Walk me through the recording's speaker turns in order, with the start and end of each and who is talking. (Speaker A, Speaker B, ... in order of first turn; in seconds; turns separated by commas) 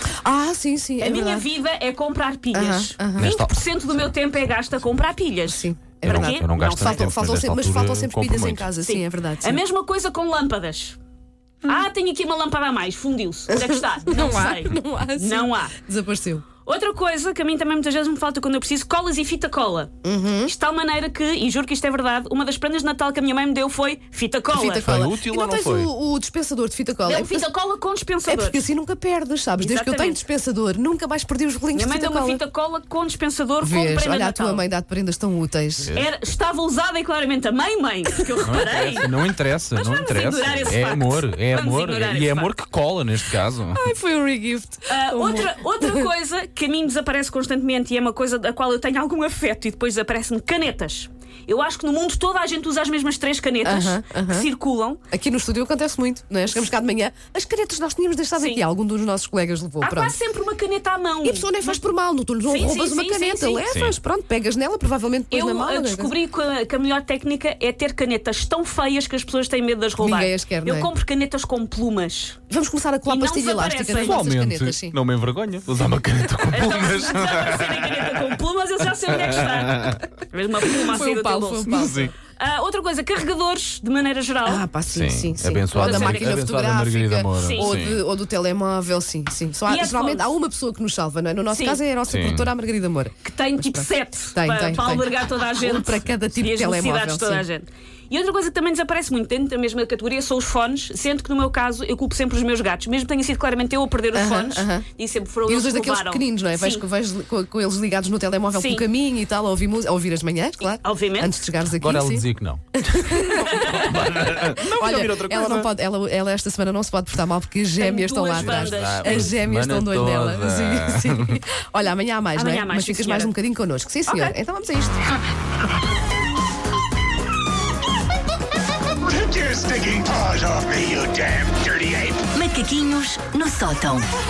Speaker A: 0.2-1.5, Speaker B: 1.0-7.0, Speaker A: 2.5-3.3, Speaker C: 3.2-4.1, Speaker A: 5.5-9.6, Speaker C: 6.0-8.7, Speaker B: 8.8-11.0, Speaker B: 11.7-15.8, Speaker A: 13.5-16.4, Speaker B: 16.6-19.9, Speaker A: 20.0-20.5, Speaker B: 20.4-24.9, Speaker A: 24.5-27.5, Speaker C: 24.6-25.9, Speaker B: 27.0-28.6, Speaker A: 28.3-32.4, Speaker B: 29.6-30.2, Speaker B: 31.7-34.6, Speaker A: 33.6-35.9, Speaker C: 35.8-36.1, Speaker B: 35.9-39.1, Speaker C: 38.4-43.8, Speaker B: 39.7-42.5, Speaker A: 43.7-46.1, Speaker B: 44.9-55.0, Speaker A: 53.6-54.5, Speaker A: 55.1-60.1, Speaker B: 58.4-58.6, Speaker B: 59.8-61.9, Speaker A: 61.2-66.1, Speaker B: 62.4-63.7, Speaker C: 63.7-64.0, Speaker B: 65.3-72.4, Speaker A: 70.0-70.9, Speaker A: 72.5-75.0, Speaker B: 73.0-74.3, Speaker C: 74.0-78.4, Speaker B: 76.5-84.6, Speaker C: 79.0-80.0, Speaker A: 80.7-82.1, Speaker C: 81.7-82.1, Speaker A: 84.4-97.5, Speaker C: 84.9-88.0, Speaker B: 85.7-86.3, Speaker B: 87.4-87.7, Speaker B: 89.7-90.3, Speaker B: 91.5-91.8, Speaker C: 92.1-92.5, Speaker B: 93.2-106.8, Speaker A: 104.1-104.9, Speaker A: 105.5-125.0, Speaker B: 108.5-108.8, Speaker B: 110.8-111.4, Speaker C: 111.8-115.7, Speaker B: 113.2-113.9, Speaker B: 117.8-119.3, Speaker C: 118.3-121.4, Speaker B: 122.3-123.3, Speaker B: 124.1-124.3, Speaker D: 129.1-132.3, Speaker C: 132.8-134.0